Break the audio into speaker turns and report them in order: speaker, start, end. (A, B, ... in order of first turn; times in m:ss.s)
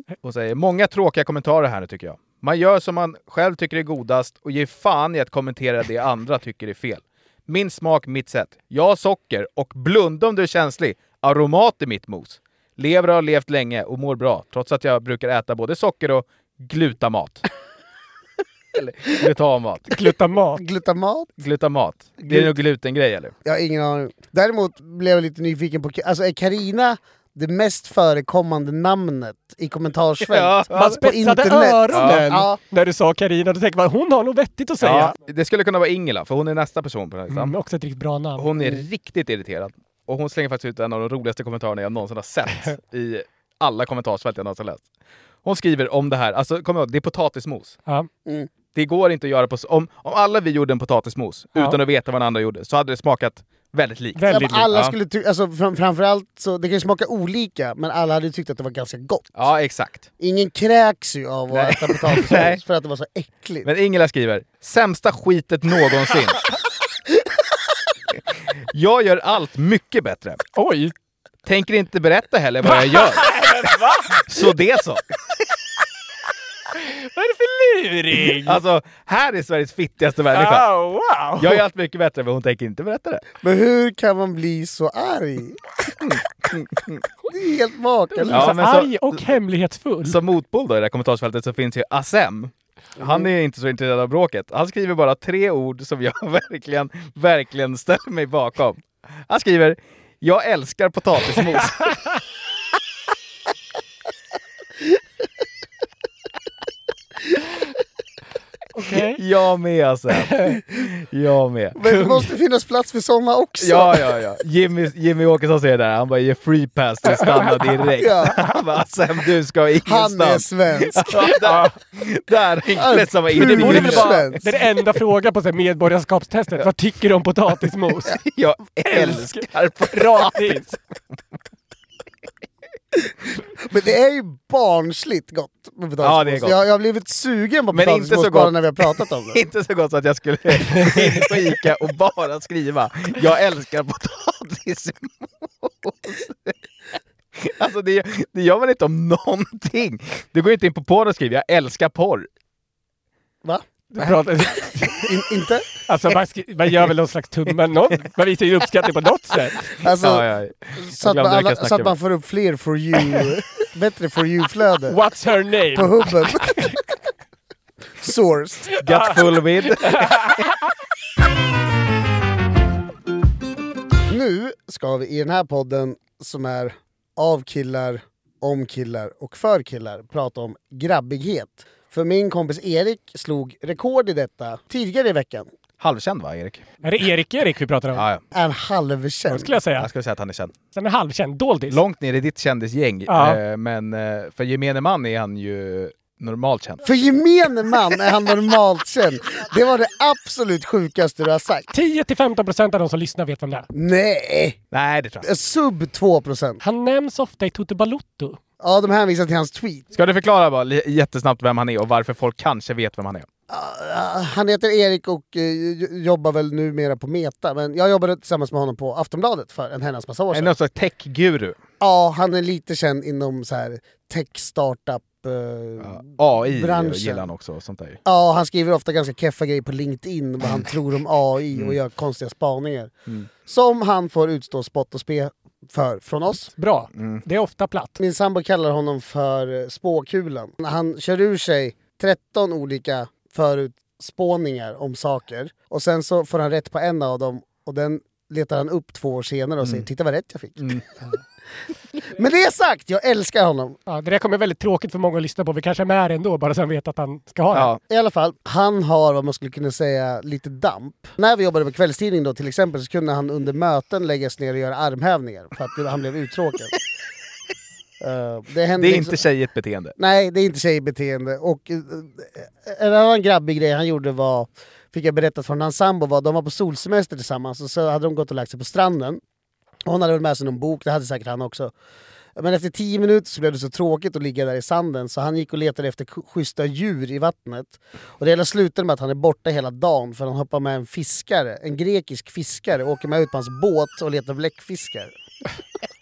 0:00.2-0:17.4 A
0:18.8-0:20.0 A
0:19.9-0:20.6 B
0:20.6-0:21.3 C
0:21.4-0:23.3 A
0:22.2-0:22.5 C
0:23.4-0:32.6 C
0:30.3-0:31.0 A
0:30.7-0:35.1 B
0:31.9-0:32.3 A
0:34.8-0:37.5 A
0:37.3-0:38.5 B
0:38.4-0:44.8 A
0:45.4-0:47.8 A
0:48.8-0:54.9 A
0:54.2-0:54.7 B
0:54.3-0:59.4 C
0:59.4-1:00.1 A
1:00.2-1:03.7 C
1:01.5-1:02.6 A
1:03.6-1:06.4 A
1:08.7-1:10.4 A
1:10.6-1:10.9 B
1:11.5-1:13.4 A
1:12.6-1:14.2 B
1:14.1-1:15.0 A
1:16.8-1:18.6 B
1:18.4-1:20.7 A
1:20.3-1:21.6 B
1:21.4-1:23.2 A
1:23.4-1:25.6 C
1:26.0-1:27.0 A
1:27.3-1:28.6 C
1:28.2-1:30.2 B
1:28.3-1:29.2 A
1:30.0-1:41.9 A
1:33.0-1:33.3 C
1:48.8-1:49.2 B
1:49.1-1:51.9 A
1:51.8-1:54.1 C
1:53.6-2:04.4 A
1:57.1-1:57.9 B
1:58.0-1:58.4 C
1:59.8-2:01.3 C
2:01.3-2:01.8 B
2:02.7-2:04.4 C
2:03.6-2:08.2 B
2:08.1-2:10.6 A
2:08.9-2:10.8 B
2:13.6-2:19.4 C
2:16.0-2:16.6 A
2:17.7-2:18.8 A
2:19.3-2:26.6 A
2:20.7-2:21.2 B
2:27.4-2:32.3 A
2:33.9-2:35.1 B
2:34.9-2:35.7 C
2:35.9-2:39.7 B
2:39.8-2:40.3 C
2:39.9-2:41.9 A
2:40.8-2:45.0 C
2:44.9-2:46.8 B
2:45.7-2:46.6 C
2:48.0-2:48.7 C
2:48.8-2:50.4 A
2:49.8-2:50.5 B
2:54.1-3:05.5 C
3:05.8-3:06.7 A
3:06.8-3:08.0 B
3:07.9-3:08.2 A
3:08.3-3:09.5 C
3:09.3-3:09.9 B
3:09.8-3:10.5 A
3:10.8-3:11.8 B
3:11.7-3:16.8 A
3:13.1-3:13.4 B
3:16.8-3:21.7 C
3:21.7-3:23.7 B
3:23.7-3:24.6 C
3:24.7-3:25.3 A
3:25.2-3:26.6 C
3:26.6-3:28.4 B
3:28.6-3:29.9 C
3:29.9-3:33.3 A
3:33.5-3:40.6 C
3:40.3-3:41.6 A
3:41.8-3:47.3 C
3:45.8-3:48.0 A
3:48.0-3:56.5 C
3:56.6-3:58.0 B
3:57.0-3:57.2 A
3:58.0-4:10.8 C
4:12.0-4:13.8 C
4:13.9-4:17.7 B
4:17.5-4:17.8 A
4:17.9-4:26.7 C
4:28.0-4:29.2 C
4:28.8-4:29.9 A
4:30.0-4:39.2 C
4:39.9-4:41.7 C
4:42.4-4:55.2 C